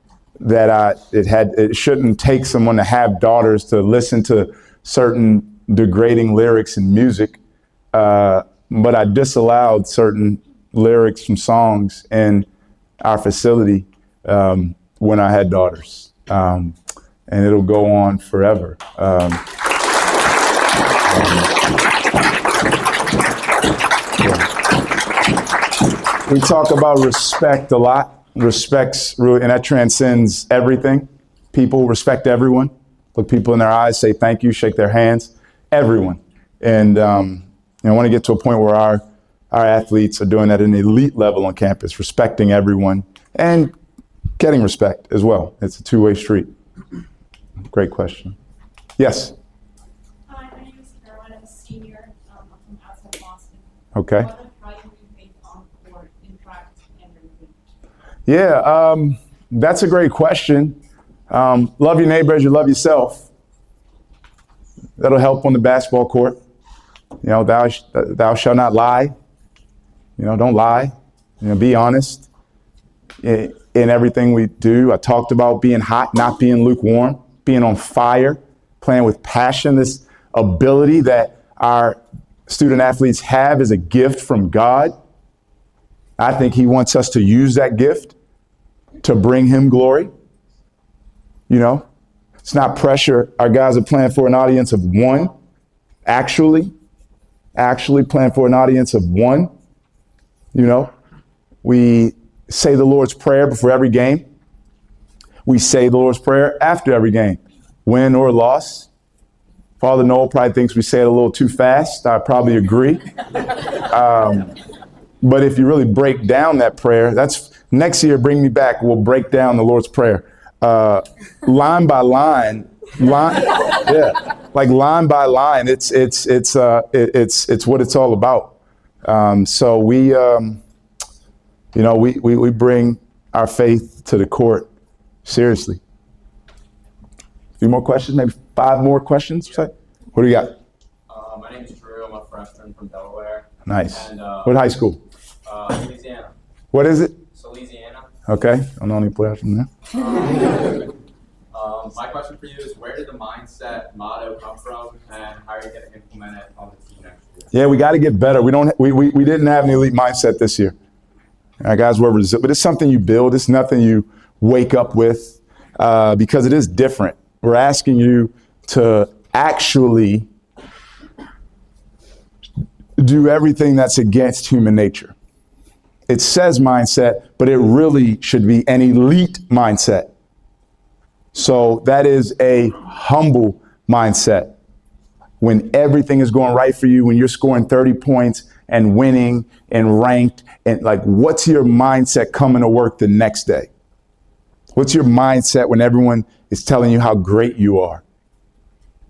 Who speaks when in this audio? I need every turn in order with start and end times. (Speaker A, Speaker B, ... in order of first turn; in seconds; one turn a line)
Speaker A: 0.4-7.4
Speaker A: 7.9-12.5
Speaker A: 13.0-16.8
Speaker A: 17.3-19.4
Speaker A: 21.1-21.5
Speaker A: 24.2-24.5
Speaker A: 26.3-43.7
Speaker A: 44.4-46.5
Speaker A: 47.7-48.4
Speaker A: 49.0-49.3
Speaker B: 50.3-57.6
Speaker A: 53.9-54.3
Speaker A: 58.3-63.3
Speaker A: 65.0-66.4
Speaker A: 67.2-69.1
Speaker A: 70.2-72.2
Speaker A: 73.2-85.0
Speaker A: 86.2-88.1
Speaker A: 89.0-90.1
Speaker A: 91.5-91.8
Speaker A: 92.4-95.3
Speaker A: 96.0-96.7
Speaker A: 97.5-99.5
Speaker A: 100.5-100.9
Speaker A: 101.6-104.2
Speaker A: 105.5-108.9
Speaker A: 109.8-113.0
Speaker A: 113.9-114.5
Speaker A: 115.2-130.6
Speaker A: 131.7-134.7
Speaker A: 135.2-135.8
Speaker A: 137.6-140.5
Speaker C: 141.1-144.7
Speaker A: 143.7-145.0
Speaker C: 145.4-146.3
Speaker A: 146.7-147.2
Speaker C: 147.3-148.1
Speaker A: 148.3-149.7
Speaker C: 150.0-150.4
Speaker C: 151.5-157.5
Speaker A: 157.5-160.8
Speaker A: 161.6-170.3
Speaker A: 173.0-175.1
Speaker A: 176.1-180.1
Speaker A: 181.3-184.5
Speaker A: 185.4-193.7
Speaker A: 194.7-198.0